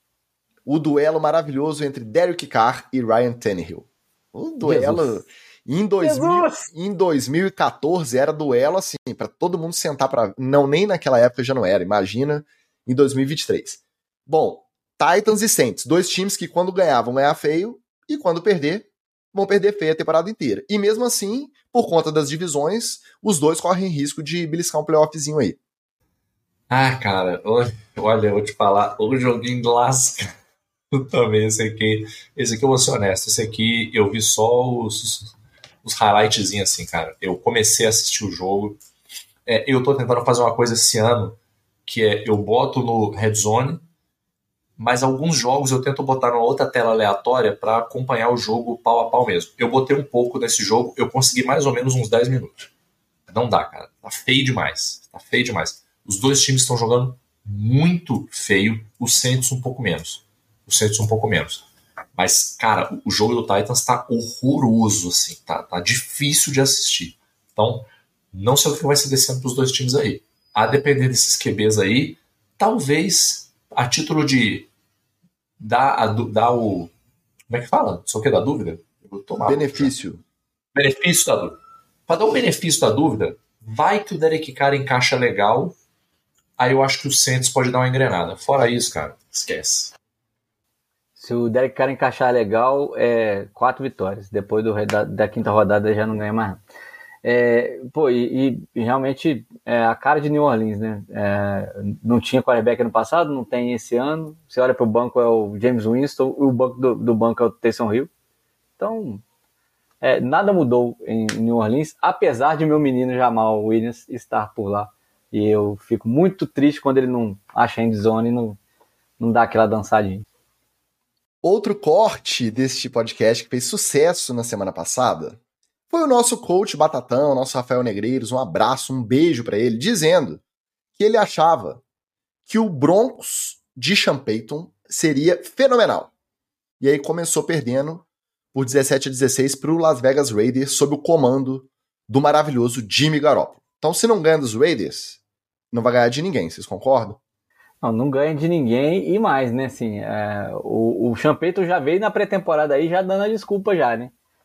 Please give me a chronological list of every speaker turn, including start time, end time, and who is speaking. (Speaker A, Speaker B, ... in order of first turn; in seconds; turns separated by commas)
Speaker A: 0.7-25.6, Speaker B: 4.6-5.2, Speaker B: 6.0-6.7, Speaker C: 26.7-30.3, Speaker C: 30.9-35.3, Speaker C: 35.8-38.8, Speaker C: 39.5-43.8, Speaker C: 44.8-52.7, Speaker C: 53.3-61.6, Speaker C: 62.1-74.7, Speaker C: 75.6-76.9, Speaker C: 77.5-79.9, Speaker A: 79.4-80.2, Speaker C: 80.7-81.5, Speaker C: 82.1-85.7, Speaker C: 86.6-89.9, Speaker B: 91.2-96.6, Speaker B: 97.2-108.1, Speaker B: 108.8-109.2, Speaker B: 110.0-118.6, Speaker B: 119.2-120.2, Speaker A: 121.4-125.4, Speaker A: 125.9-130.4, Speaker A: 131.0-131.8, Speaker A: 132.4-136.1, Speaker A: 136.8-145.2, Speaker A: 145.7-147.2, Speaker B: 147.8-154.1